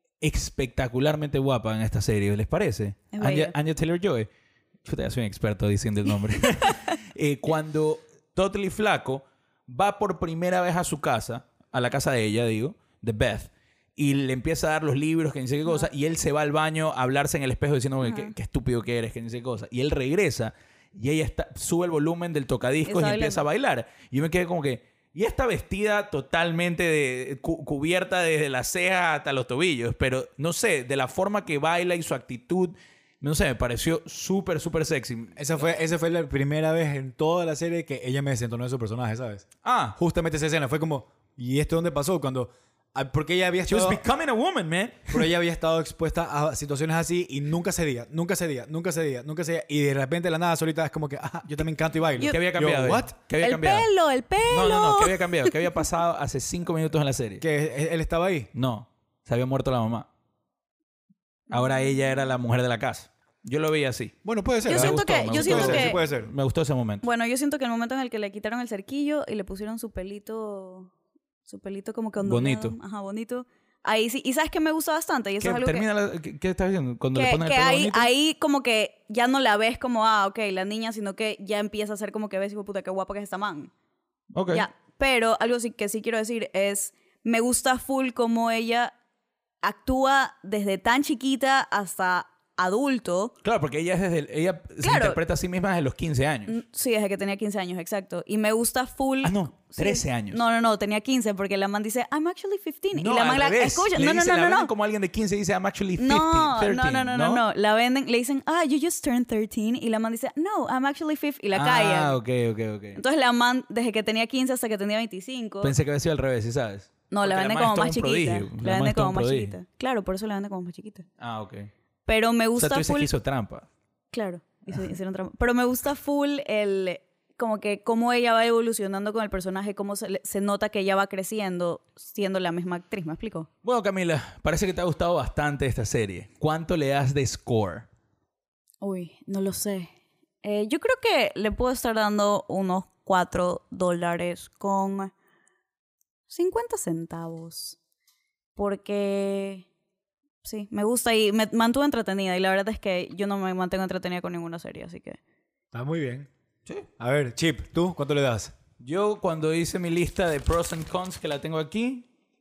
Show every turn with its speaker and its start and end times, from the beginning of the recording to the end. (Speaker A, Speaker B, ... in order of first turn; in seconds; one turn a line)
Speaker A: 0.2-4.3
Speaker B: 3.1-3.5
Speaker A: 4.8-35.4
Speaker B: 6.4-6.9
Speaker B: 18.0-18.3
Speaker B: 22.9-23.4
Speaker C: 35.4-39.5
Speaker A: 39.6-40.0
Speaker C: 40.0-44.0
Speaker A: 43.7-45.3
Speaker C: 45.1-53.1
Speaker A: 52.3-53.9
Speaker B: 53.4-55.5
Speaker A: 54.5-57.4
Speaker C: 57.4-58.5
Speaker A: 58.5-60.1
Speaker A: 61.5-67.0
Speaker C: 64.2-66.3
Speaker B: 64.7-66.0
Speaker B: 67.0-70.9
Speaker B: 71.5-75.8
Speaker A: 72.2-72.8
Speaker A: 75.4-78.1
Speaker B: 77.2-83.7
Speaker A: 84.3-84.7
Speaker B: 84.5-88.9
Speaker B: 89.6-93.3
Speaker A: 93.4-96.6
Speaker B: 94.8-95.2
Speaker B: 96.5-104.7
Speaker A: 99.2-100.4
Speaker A: 103.0-107.4
Speaker B: 106.0-112.2
Speaker A: 111.5-113.0
Speaker B: 113.0-115.7
Speaker A: 115.6-119.5
Speaker B: 117.1-121.0
Speaker A: 121.2-121.7
Speaker B: 122.1-123.1
Speaker A: 122.6-123.7
Speaker B: 124.1-133.5
Speaker A: 133.6-137.9
Speaker B: 138.8-139.9
Speaker B: 140.4-145.1
Speaker B: 146.3-147.8
Speaker B: 148.6-149.7
Speaker B: 150.4-155.2
Speaker C: 155.7-156.3
Speaker C: 157.0-158.5
Speaker A: 158.8-162.1